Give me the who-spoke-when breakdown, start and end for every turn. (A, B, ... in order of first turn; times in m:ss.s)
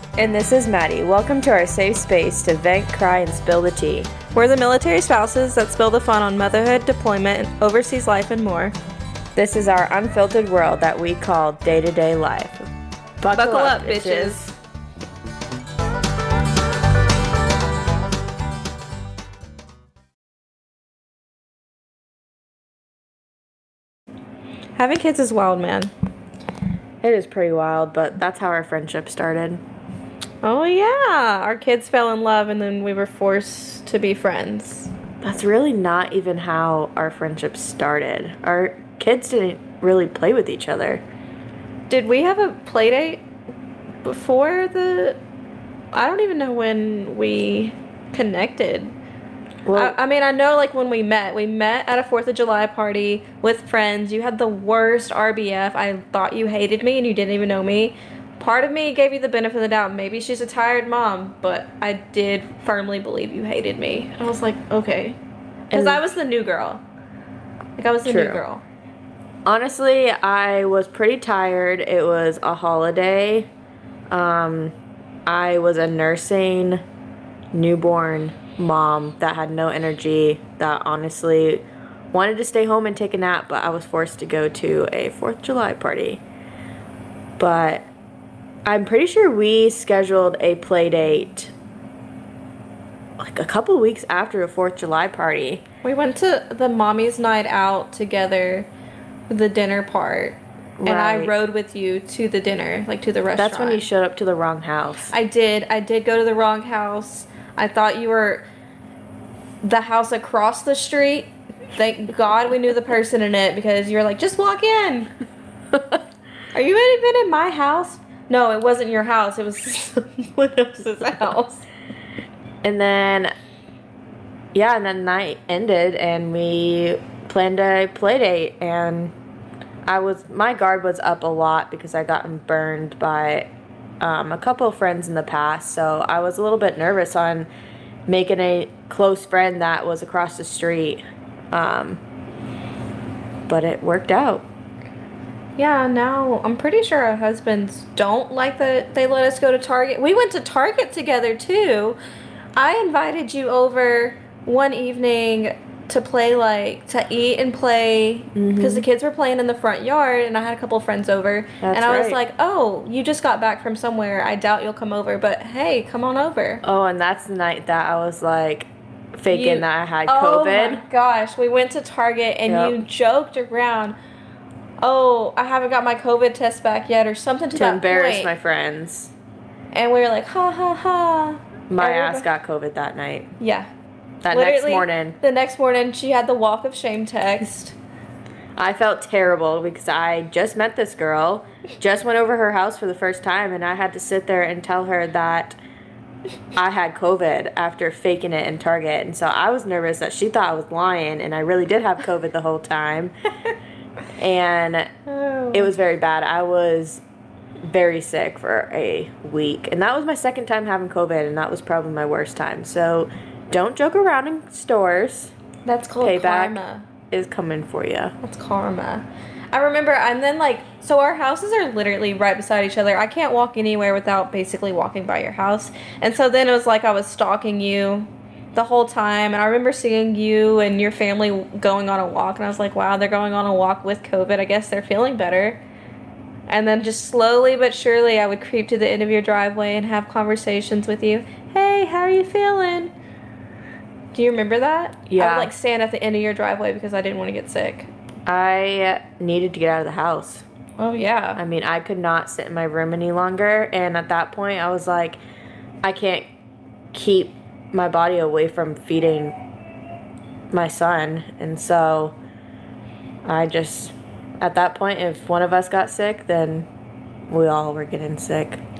0:00.2-0:04.1 A
0:04.3-0:08.7 B
0:09.4-0:12.7 A
0:13.2-0:14.5 A
0:13.3-0:14.4 B
0:24.8-0:25.9 B
0:27.0-0:29.6 A
0:30.4-0:34.9 B
0:35.2-0:41.0 A
0:41.9-0:43.2 B
0:44.0-0:45.2 B
0:45.9-0:48.9 B
0:49.6-0:50.0 A
0:49.7-1:05.2 B
1:05.7-1:06.0 A
1:05.7-1:06.8 B
1:07.8-1:08.6 B
1:08.0-1:08.4 A
1:09.4-1:13.5 A
1:14.1-1:14.7 A
1:15.3-1:16.8 A
1:17.5-1:26.2 A
1:27.4-1:27.9 A
1:28.6-1:31.5 A
1:33.2-1:35.6 A
1:35.8-1:38.7 B
1:39.3-1:43.8 B
1:40.8-1:41.3 A
1:43.4-1:45.1 A
1:45.1-1:48.4 B
1:49.6-1:55.1 B
1:56.5-2:01.6 B
2:02.6-2:03.3 A
2:04.5-2:09.1 A
2:09.8-2:13.5 A
2:14.0-2:17.5 A
2:18.1-2:22.0 A
2:23.5-2:24.4 A
2:25.6-2:32.0 B
2:32.6-2:46.6 B
2:38.3-2:38.8 A
2:41.6-2:42.2 A
2:46.6-2:50.8 A
2:49.3-2:53.9 B
2:52.5-2:52.8 A
2:54.8-2:58.3 B
2:57.5-2:59.1 A
2:59.7-3:02.3 B
3:01.7-3:03.3 A
3:03.4-3:03.7 B
3:04.2-3:05.2 A
3:04.3-3:07.8 B
3:08.6-3:15.6 A
3:16.5-3:23.1 A
3:24.2-3:24.9 A
3:25.1-3:25.7 B
3:25.5-3:27.0 A
3:27.6-3:35.3 A
3:35.6-3:36.9 B
3:36.0-3:38.1 A
3:38.2-3:55.6 B
3:56.5-4:02.9 B
4:04.1-4:07.9 B
4:05.1-4:05.5 A
4:08.3-4:10.4 A
4:10.8-4:11.4 B
4:11.3-4:15.2 A
4:15.8-4:16.3 A
4:16.9-4:19.3 A
4:20.5-4:22.2 A
4:23.2-4:26.7 A
4:27.3-4:28.6 A